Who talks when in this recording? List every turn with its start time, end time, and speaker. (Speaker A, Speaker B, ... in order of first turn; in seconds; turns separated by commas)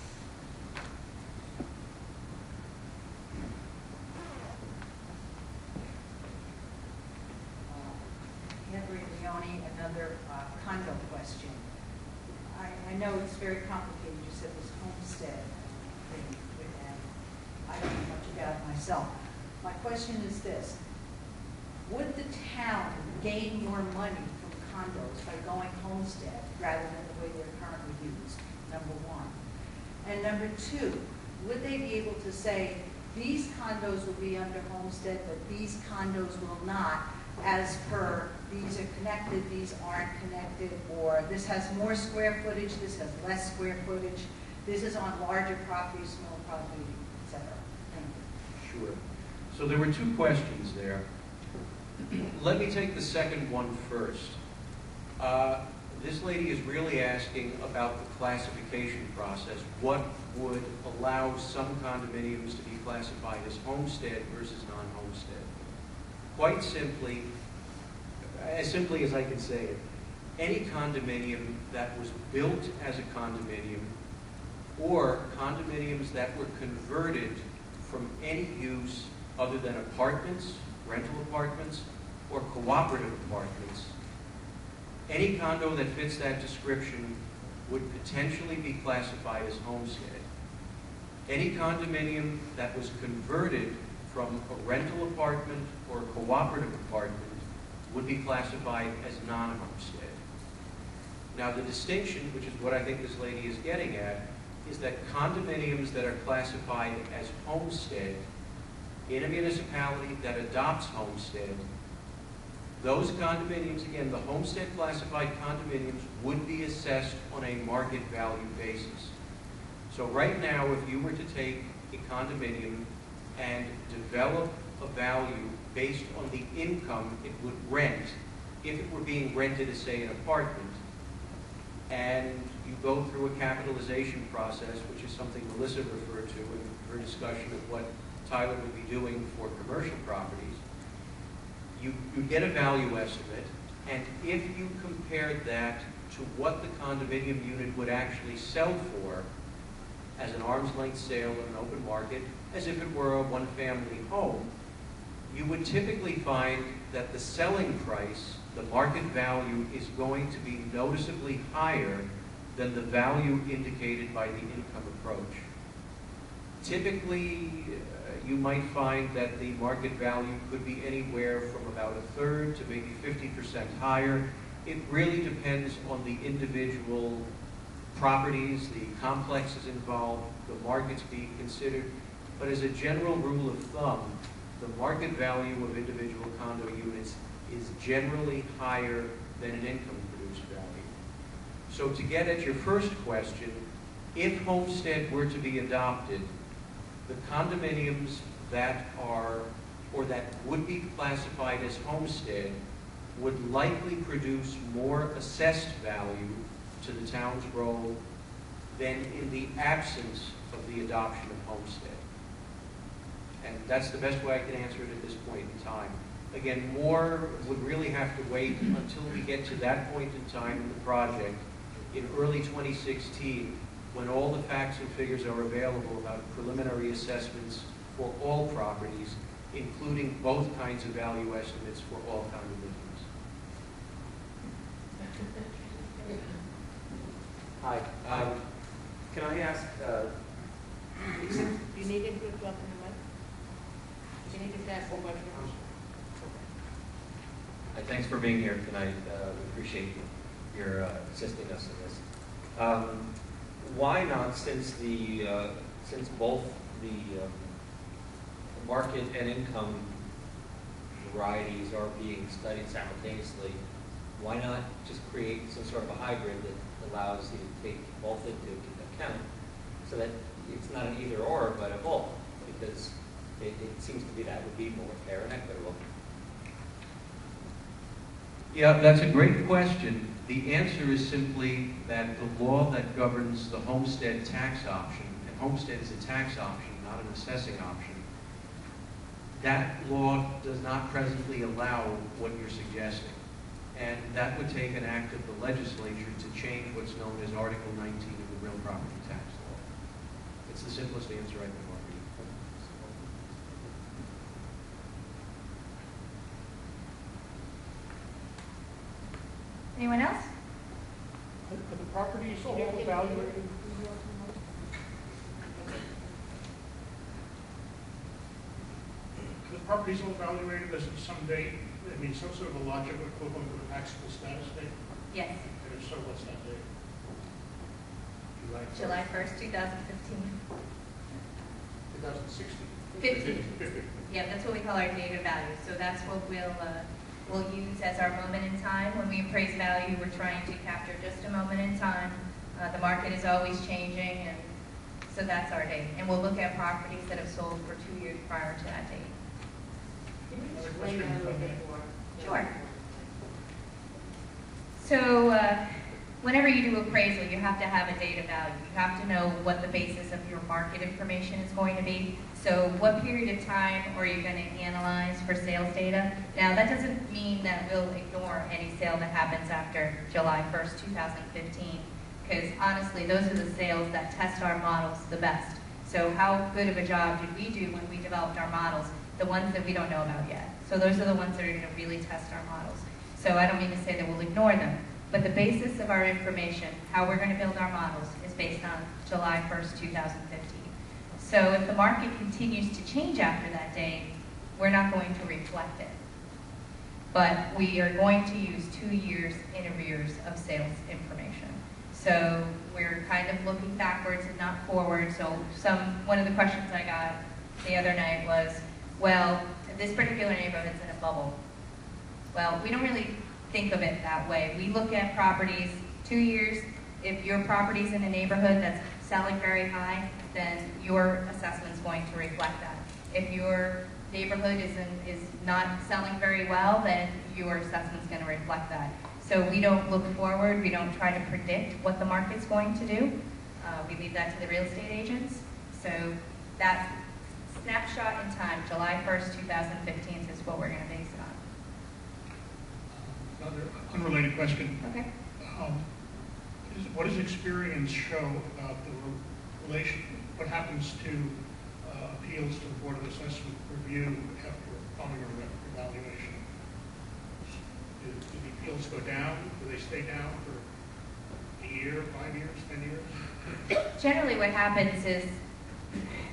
Speaker A: 7.7-11.7, Speaker A: 12.5-17.1, Speaker A: 17.6-20.8, Speaker A: 21.8-29.3, Speaker A: 30.0-48.2, Speaker B: 48.6-49.0, Speaker B: 49.5-51.0, Speaker B: 52.1-54.4, Speaker B: 55.2-65.5, Speaker B: 66.3-67.3, Speaker B: 68.3-69.8, Speaker B: 70.4-73.9, Speaker B: 74.8-83.9, Speaker B: 85.1-90.2, Speaker B: 91.3-100.2, Speaker B: 101.3-108.2, Speaker B: 109.1-111.6, Speaker B: 112.8-119.1, Speaker B: 119.9-130.8, Speaker B: 131.9-140.6, Speaker B: 141.7-149.2, Speaker B: 150.2-154.5, Speaker B: 155.3-165.4, Speaker B: 166.6-177.2, Speaker B: 177.9-190.9, Speaker B: 191.7-193.6, Speaker B: 194.1-196.3, Speaker B: 197.1-202.6, Speaker B: 203.1-208.0, Speaker B: 208.7-212.0, Speaker B: 213.4-233.1, Speaker C: 236.0-236.3, Speaker D: 237.6-238.4, Speaker D: 239.1-240.1, Speaker C: 241.2-243.0, Speaker C: 244.2-245.7, Speaker D: 247.7-252.0, Speaker D: 252.6-253.1, Speaker D: 253.6-257.5, Speaker D: 258.5-259.9, Speaker D: 261.0-263.6, Speaker D: 264.1-269.2, Speaker D: 269.8-275.8, Speaker B: 278.5-288.0, Speaker B: 289.4-293.2, Speaker B: 293.7-299.6, Speaker B: 300.4-303.5, Speaker E: 309.7-310.3, Speaker F: 311.5-314.3, Speaker F: 319.4-324.7, Speaker E: 325.1-325.4, Speaker F: 325.6-326.6, Speaker F: 328.4-329.1, Speaker E: 328.7-330.3, Speaker F: 331.9-333.9, Speaker E: 333.0-333.4, Speaker E: 334.1-344.5, Speaker E: 345.1-349.1, Speaker C: 350.3-353.3, Speaker F: 350.5-351.6, Speaker E: 352.2-352.5, Speaker E: 354.8-355.6, Speaker E: 356.2-395.9, Speaker E: 397.1-411.3, Speaker E: 412.3-436.9, Speaker E: 437.5-441.4, Speaker F: 442.9-444.8, Speaker E: 444.8-445.1, Speaker F: 445.4-445.8, Speaker F: 446.7-456.4, Speaker F: 458.0-460.6, Speaker F: 461.6-463.2, Speaker E: 464.0-465.4